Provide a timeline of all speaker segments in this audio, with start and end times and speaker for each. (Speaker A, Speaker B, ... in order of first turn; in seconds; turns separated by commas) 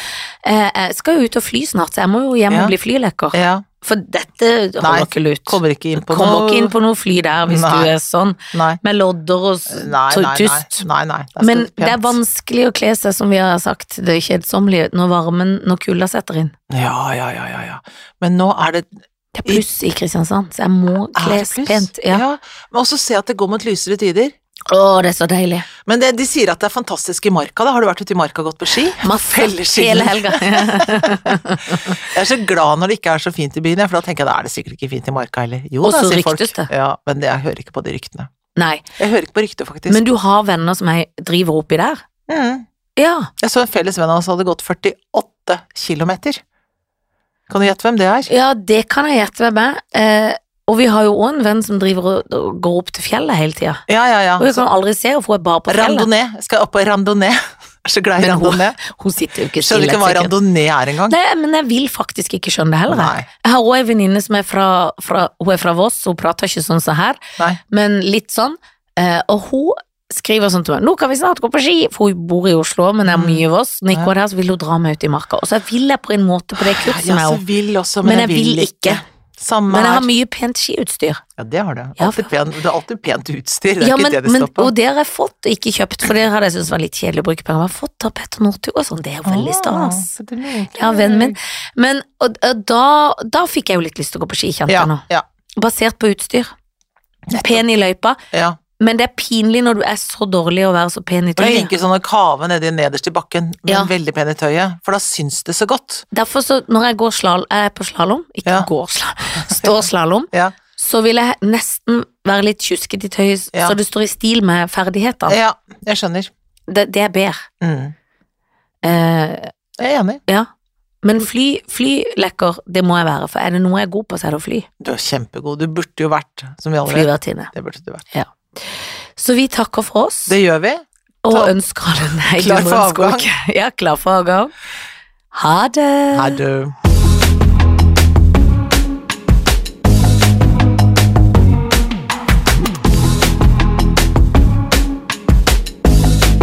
Speaker A: 0.4-10.8, Speaker B: 3.3-3.6, Speaker B: 4.8-6.7, Speaker B: 7.5-7.9, Speaker B: 8.5-8.8, Speaker B: 9.7-12.2, Speaker A: 11.4-16.5, Speaker B: 16.7-18.9, Speaker A: 19.4-22.2, Speaker B: 21.1-24.3, Speaker A: 24.7-25.7, Speaker B: 25.8-38.3, Speaker A: 29.0-31.9, Speaker A: 35.8-36.7, Speaker A: 38.5-38.9, Speaker B: 39.0-40.0, Speaker A: 39.9-42.0, Speaker B: 42.3-42.6, Speaker A: 43.0-43.3, Speaker B: 43.4-46.4, Speaker B: 47.5-48.3, Speaker A: 48.3-53.8, Speaker B: 53.9-54.6, Speaker A: 54.4-56.1, Speaker B: 55.7-58.8, Speaker A: 58.2-60.3, Speaker B: 59.6-61.1, Speaker A: 61.1-77.4, Speaker B: 62.9-63.3, Speaker B: 73.0-74.1, Speaker B: 76.6-80.1, Speaker A: 78.0-79.0, Speaker A: 79.7-81.2, Speaker B: 81.4-84.7, Speaker A: 82.0-82.3, Speaker A: 83.8-90.1, Speaker B: 89.2-91.4, Speaker A: 90.8-95.0, Speaker B: 94.7-95.2, Speaker A: 95.6-96.5, Speaker B: 97.3-97.6, Speaker A: 97.4-98.2, Speaker B: 98.3-98.6, Speaker A: 98.8-101.7, Speaker B: 101.4-106.0, Speaker A: 103.7-103.9, Speaker A: 106.1-115.4, Speaker B: 109.4-109.7, Speaker B: 115.3-116.3, Speaker A: 116.7-117.5, Speaker B: 117.6-117.9, Speaker A: 118.8-119.5, Speaker B: 119.8-120.2, Speaker A: 121.0-124.7, Speaker B: 124.8-128.1, Speaker A: 126.8-127.5, Speaker A: 128.1-130.3, Speaker B: 130.3-131.6, Speaker A: 131.2-134.5, Speaker B: 132.2-133.2, Speaker A: 135.3-136.4, Speaker B: 136.1-136.8